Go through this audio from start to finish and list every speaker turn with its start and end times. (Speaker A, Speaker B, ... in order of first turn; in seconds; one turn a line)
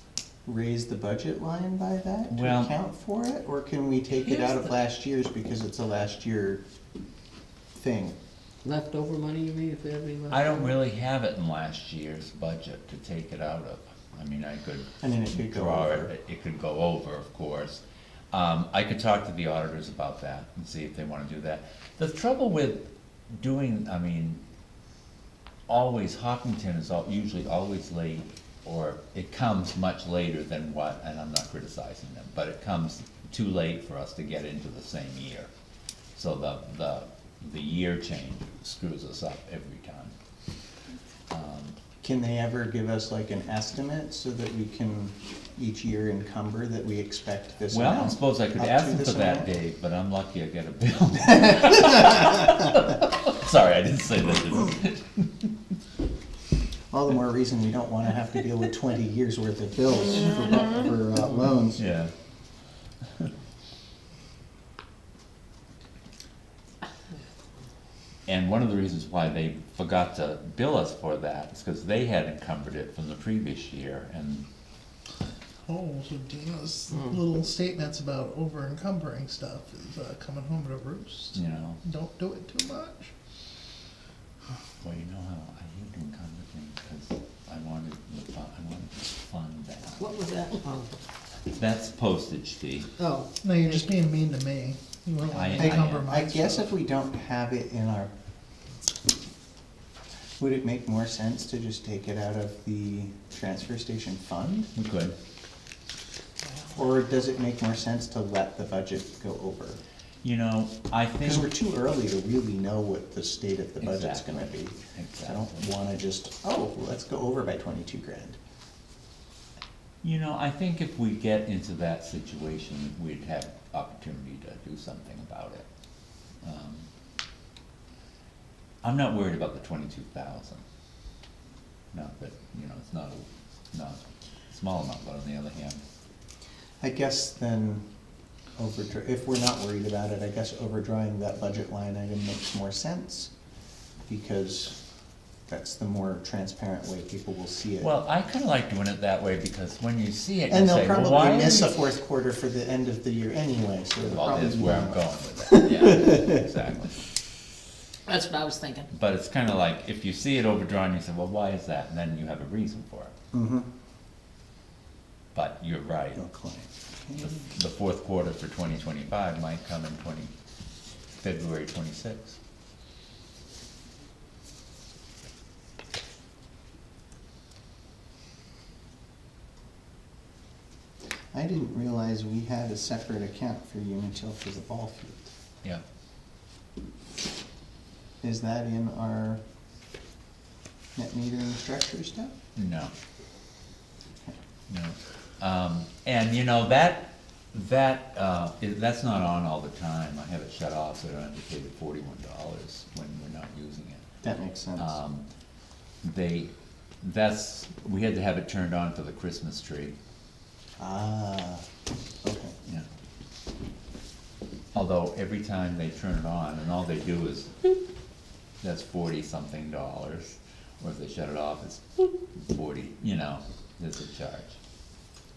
Speaker A: 0.4-6.6
Speaker B: 2.3-2.7
Speaker A: 7.7-8.2
Speaker C: 8.6-10.7
Speaker B: 10.3-22.8
Speaker A: 15.0-16.1
Speaker B: 23.4-24.4
Speaker B: 25.7-35.5
Speaker B: 36.1-40.1
Speaker B: 41.3-41.8
Speaker A: 42.0-49.5
Speaker B: 47.7-55.5
Speaker A: 56.9-61.8
Speaker B: 61.8-62.1
Speaker B: 68.2-74.5
Speaker D: 75.6-83.1
Speaker B: 81.3-81.8
Speaker B: 84.8-90.1
Speaker C: 90.0-91.0
Speaker B: 91.5-92.9
Speaker C: 93.0-93.9
Speaker D: 93.4-96.7
Speaker B: 95.3-96.1
Speaker A: 95.5-98.1
Speaker A: 100.4-104.7
Speaker B: 104.7-105.1
Speaker A: 106.7-109.8
Speaker B: 110.2-111.5
Speaker A: 111.2-118.4
Speaker B: 113.8-115.7
Speaker B: 120.0-125.7
Speaker B: 126.4-126.9
Speaker B: 128.8-130.6
Speaker B: 131.9-135.8
Speaker A: 136.8-137.8
Speaker A: 138.6-143.3
Speaker A: 144.1-144.8
Speaker A: 145.5-147.9
Speaker B: 147.8-151.8
Speaker A: 150.5-156.3
Speaker B: 154.0-157.0
Speaker C: 158.1-158.9
Speaker B: 158.9-163.1
Speaker A: 163.3-163.7
Speaker B: 165.3-166.2
Speaker A: 166.2-167.4
Speaker B: 167.2-170.3
Speaker B: 171.2-172.4
Speaker A: 181.3-185.3
Speaker A: 188.2-189.4
Speaker A: 190.9-192.3
Speaker B: 192.6-192.9
Speaker B: 194.7-204.0
Speaker A: 204.2-204.9
Speaker B: 204.8-205.2
Speaker B: 206.0-209.9
Speaker A: 210.8-211.6
Speaker A: 212.2-212.5
Speaker B: 214.7-217.5
Speaker B: 218.6-224.6